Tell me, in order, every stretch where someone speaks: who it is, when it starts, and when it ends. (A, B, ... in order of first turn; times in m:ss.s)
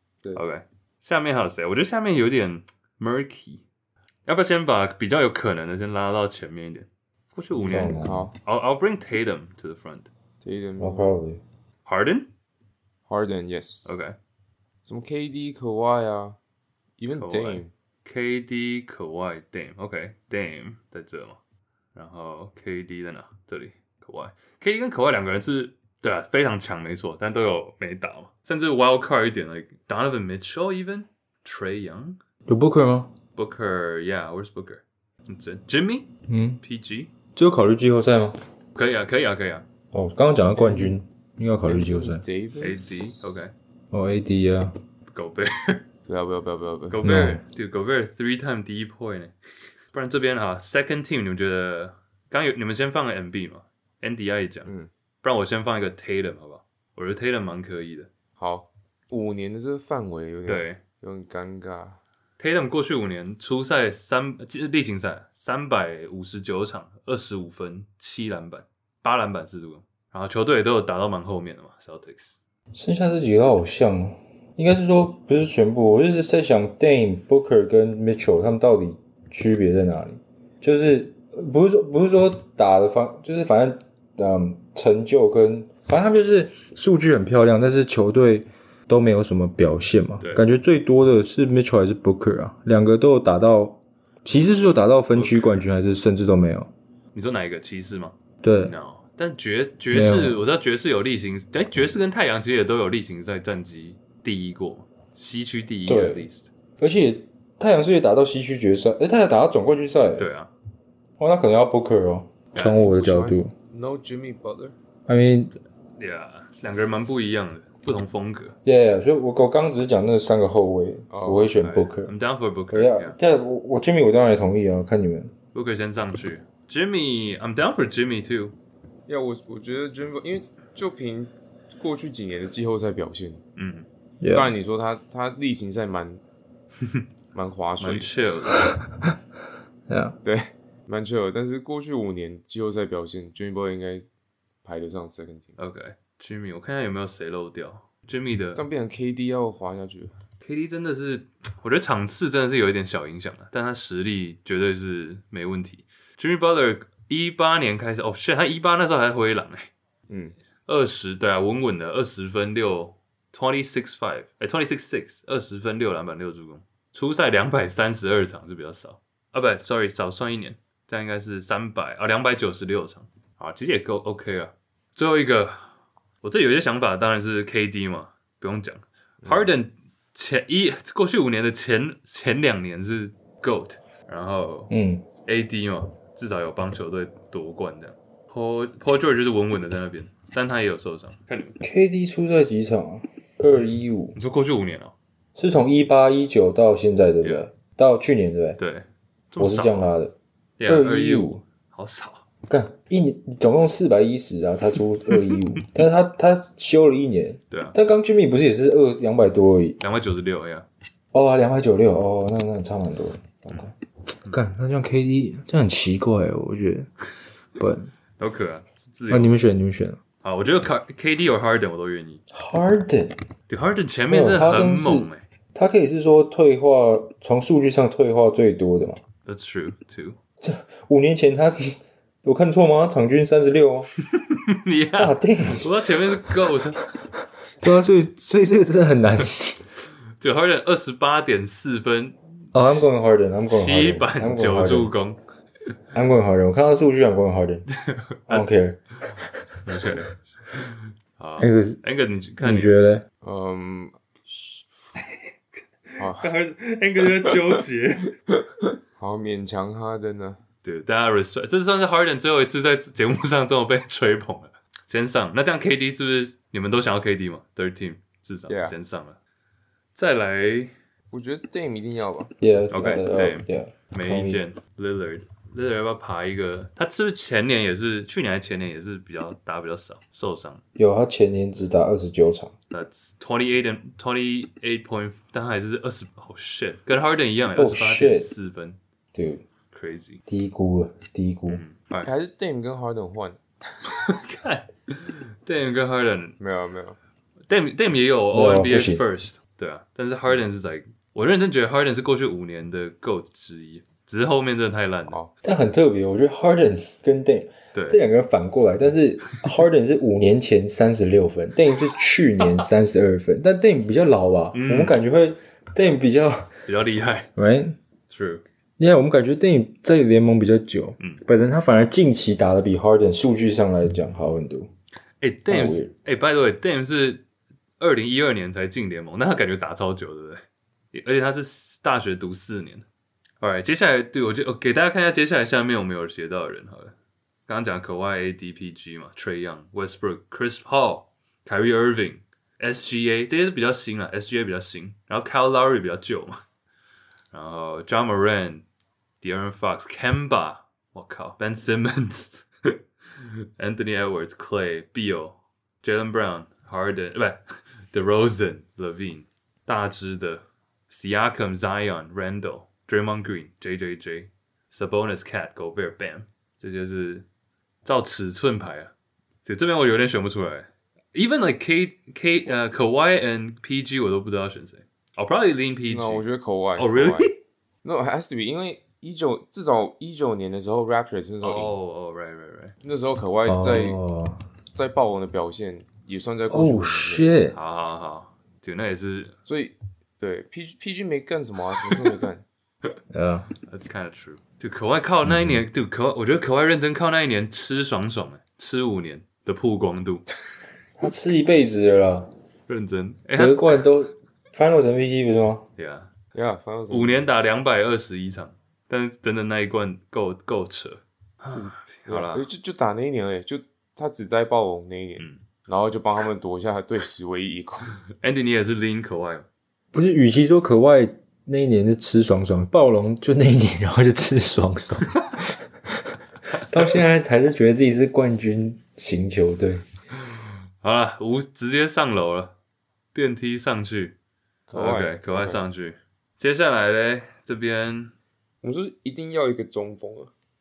0:00.3-0:03.6 A
0:04.3-0:10.1 A
0:07.6-0:08.3 B
0:08.0-0:08.3 C
0:10.4-0:11.1 C
0:10.8-0:11.4 B
0:11.9-0:12.3 A
0:13.1-0:14.0 C
0:13.9-0:14.2 A
0:14.9-0:16.4 C
0:17.0-0:17.7 C
0:17.1-0:21.4 A
0:22.0-0:32.2 A
0:32.5-0:33.1 B
0:33.4-0:37.1 A
0:36.3-0:36.6 B
0:37.4-0:38.4 B
0:38.8-0:39.6 A
0:39.9-0:42.2 B
0:41.6-0:43.2 C
0:42.6-0:43.5 A
0:43.9-0:44.8 B
0:45.1-0:45.8 A
0:46.1-0:47.1 C
0:46.9-0:49.3 A
0:47.0-0:47.4 B
0:49.9-0:54.7 A
0:54.6-0:54.9 C
0:55.2-0:58.1 A
0:58.4-1:02.0 C
1:00.5-1:00.8 A
1:02.4-1:12.4 A
1:12.7-1:36.7 B
1:35.1-1:35.6 A
1:37.1-1:46.5 A
1:38.4-1:38.8 B
1:39.9-1:40.4 B
1:45.9-1:46.3 B
1:46.8-1:50.3 B
1:50.2-1:50.5 A
1:51.2-1:53.5 B
1:52.5-1:53.3 A
1:53.7-1:54.8 C
1:55.1-1:55.6 B
1:56.0-1:58.6 A
1:58.6-2:02.1 B
2:01.1-2:01.5 C
2:01.6-2:03.2 A
2:02.7-2:05.3 B
2:05.5-2:08.5 A
2:09.1-2:13.4 C
2:13.6-2:13.9 A
2:14.2-2:14.5 B
2:14.3-2:16.2 C
2:17.3-2:18.1 C
2:17.8-2:18.7 A
2:19.9-2:20.2 B
2:20.2-2:24.1 C
2:24.6-2:25.6 C
2:25.6-2:28.6 A
2:28.6-2:30.1 C
2:30.4-2:39.7 A
2:40.1-2:40.4 C
2:40.7-2:55.6 A
2:56.2-3:04.7 A
2:59.2-2:59.5 C
3:04.7-3:05.0 B
3:05.2-3:11.6 A
3:11.6-3:14.2 B
3:14.2-3:14.9 A
3:15.4-3:18.6 B
3:18.6-3:19.9 A
3:19.4-3:20.2 B
3:20.6-3:22.2 A
3:20.7-3:21.4 B
3:22.5-3:29.8 B
3:29.8-3:30.7 A
3:31.1-3:33.7 B
3:34.2-3:36.9 B
3:37.6-3:37.9 B
3:38.2-3:39.4 A
3:39.1-3:40.0 B
3:40.2-3:42.2 A
3:42.3-3:43.2 B
3:43.5-3:45.2 A
3:44.1-3:49.0 B
3:49.2-3:50.2 A
3:50.4-3:53.9 B
3:54.0-3:56.8 A
3:55.0-3:56.3 B
3:57.6-3:59.6 B
4:00.2-4:02.9 A
4:02.5-4:04.9 B
4:03.5-4:05.2 A
4:05.9-4:07.7 B
4:07.7-4:08.5 A
4:08.3-4:09.5 B
4:09.7-4:12.8 A
4:11.4-4:11.8 B
4:12.4-4:13.0 B
4:13.2-4:14.0 C
4:15.9-4:18.2 A
4:16.0-4:16.3 C
4:18.6-4:20.4 C
4:20.6-4:29.2 A
4:28.5-4:28.8 C
4:30.0-4:30.7 A
4:31.1-4:32.3 C
4:32.4-4:34.4 B
4:32.7-4:40.6 A
4:40.8-4:42.5 B
4:42.7-4:48.8 A
4:47.6-4:48.3 B
4:49.1-4:49.4 B
4:49.7-4:50.2 A
4:50.3-4:51.6 B
4:51.5-4:52.1 A
4:52.0-4:53.4 C
4:53.9-4:56.4 A
4:56.4-4:57.0 C
4:57.5-5:05.2 A
4:58.3-4:59.0 B
5:05.4-5:16.6 B
5:07.7-5:08.0 A
5:14.5-5:15.0 A
5:16.7-5:17.3 A
5:17.4-5:17.8 B
5:18.1-5:18.4 A
5:18.8-5:24.7 B
5:25.2-5:27.2 A
5:25.5-5:25.9 B
5:27.8-5:32.9 A
5:33.4-5:37.0 A
5:37.5-5:46.4 A
5:47.3-5:48.6 A
5:49.2-6:07.3 A
6:07.8-6:08.9 A
6:09.4-6:16.2 A
6:15.9-6:17.3 C
6:16.8-6:17.4 A
6:17.8-6:21.7 C
6:21.4-6:22.8 A
6:22.8-6:24.0 C
6:23.5-6:24.4 B
6:24.7-6:27.3 C
6:26.5-6:27.6 B
6:27.5-6:29.4 A
6:29.5-6:32.4 C
6:33.1-6:33.5 B
6:33.7-6:40.3 A
6:41.0-6:42.3 B
6:42.7-6:43.8 A
6:43.4-6:45.7 B
6:45.8-6:46.1 A
6:46.3-6:47.3 C
6:46.9-6:52.5 A
6:51.5-6:58.0 C
6:58.2-6:59.5 A
6:59.9-7:05.4 B
7:06.6-7:09.8 B
7:10.8-7:12.5 A
7:13.1-7:14.2 A
7:14.7-7:15.6 C
7:14.7-7:18.1 A
7:18.6-7:20.3 C